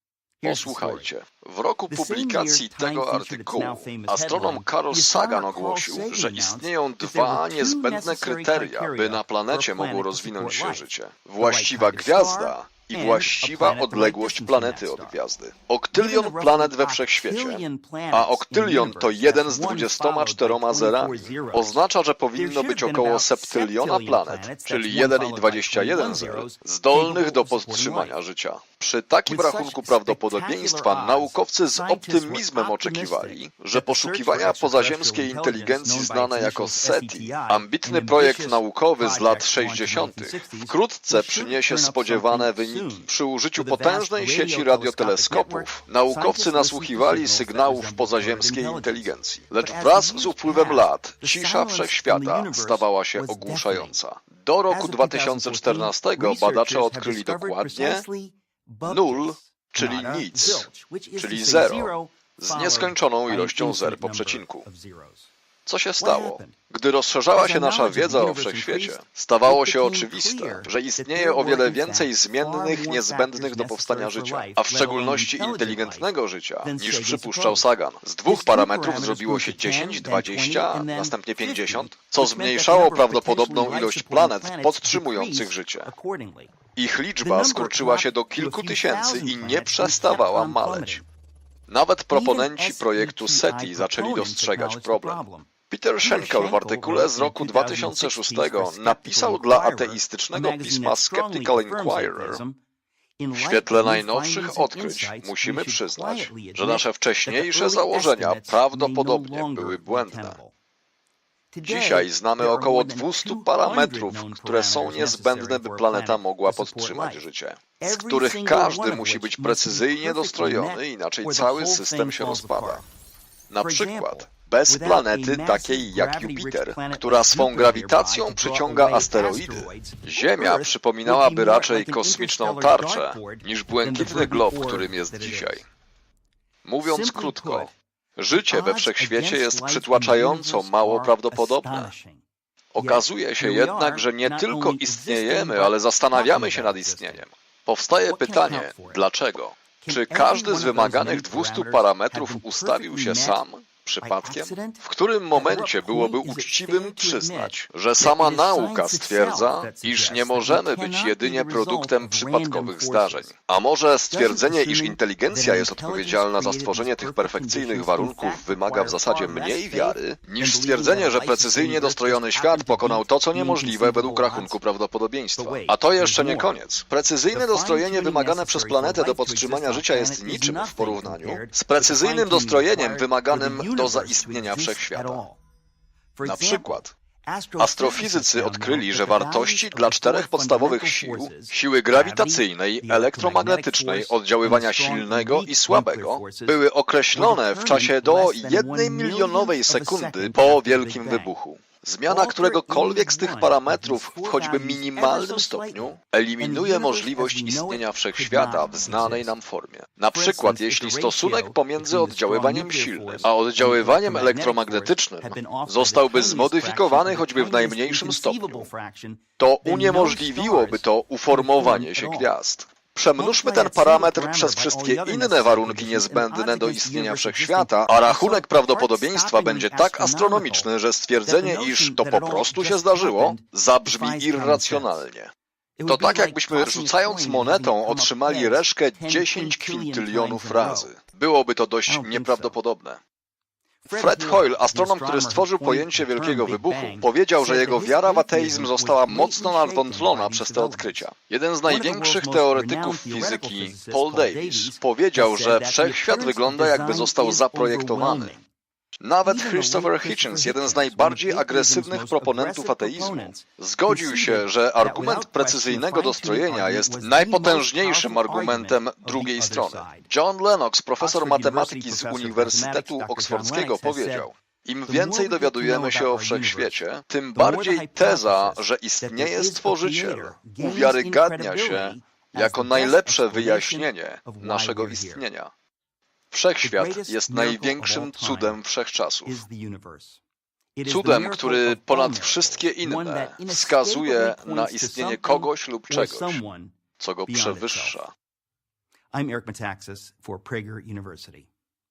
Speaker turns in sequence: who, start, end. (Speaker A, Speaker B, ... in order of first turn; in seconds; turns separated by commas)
Speaker A: 0.4-1.1, Speaker B: 0.4-58.0, Speaker A: 1.9-10.9, Speaker A: 11.4-15.2, Speaker A: 15.9-21.8, Speaker A: 22.4-28.2, Speaker A: 29.3-54.0, Speaker A: 54.7-65.3, Speaker B: 58.9-64.7, Speaker B: 65.7-85.9, Speaker A: 66.0-66.6, Speaker A: 67.3-76.1, Speaker A: 76.6-77.7, Speaker A: 78.2-86.6, Speaker B: 86.8-91.0, Speaker A: 87.2-91.0, Speaker B: 91.7-102.4, Speaker A: 92.1-102.6, Speaker A: 103.2-110.5, Speaker B: 103.3-110.4, Speaker A: 111.5-117.2, Speaker B: 111.6-122.8, Speaker A: 117.8-122.8, Speaker B: 123.5-135.6, Speaker A: 123.6-135.6, Speaker B: 136.6-141.9, Speaker A: 136.8-137.7, Speaker A: 138.3-142.2, Speaker B: 142.7-185.2, Speaker A: 142.8-147.2, Speaker A: 148.1-149.0, Speaker A: 149.8-153.4, Speaker A: 154.0-154.8, Speaker A: 155.3-163.4, Speaker A: 164.1-174.6, Speaker A: 175.4-176.5, Speaker A: 177.3-185.4, Speaker A: 186.2-196.6, Speaker B: 186.2-186.9, Speaker B: 187.6-218.7, Speaker A: 197.1-201.3, Speaker A: 202.1-209.3, Speaker A: 210.1-222.3, Speaker B: 219.4-235.3, Speaker A: 223.2-230.7, Speaker A: 231.2-235.1, Speaker A: 235.8-240.9, Speaker B: 235.9-243.0, Speaker A: 241.9-242.6, Speaker A: 243.8-251.1, Speaker B: 243.9-258.4, Speaker A: 251.7-258.4, Speaker B: 259.0-285.5, Speaker A: 259.2-270.1, Speaker A: 271.0-274.3, Speaker A: 274.9-285.2, Speaker B: 286.3-289.4, Speaker A: 286.6-288.6, Speaker A: 289.2-290.2, Speaker A: 290.8-296.8, Speaker B: 290.8-296.4, Speaker B: 297.0-298.1, Speaker A: 297.3-298.0, Speaker A: 299.1-301.5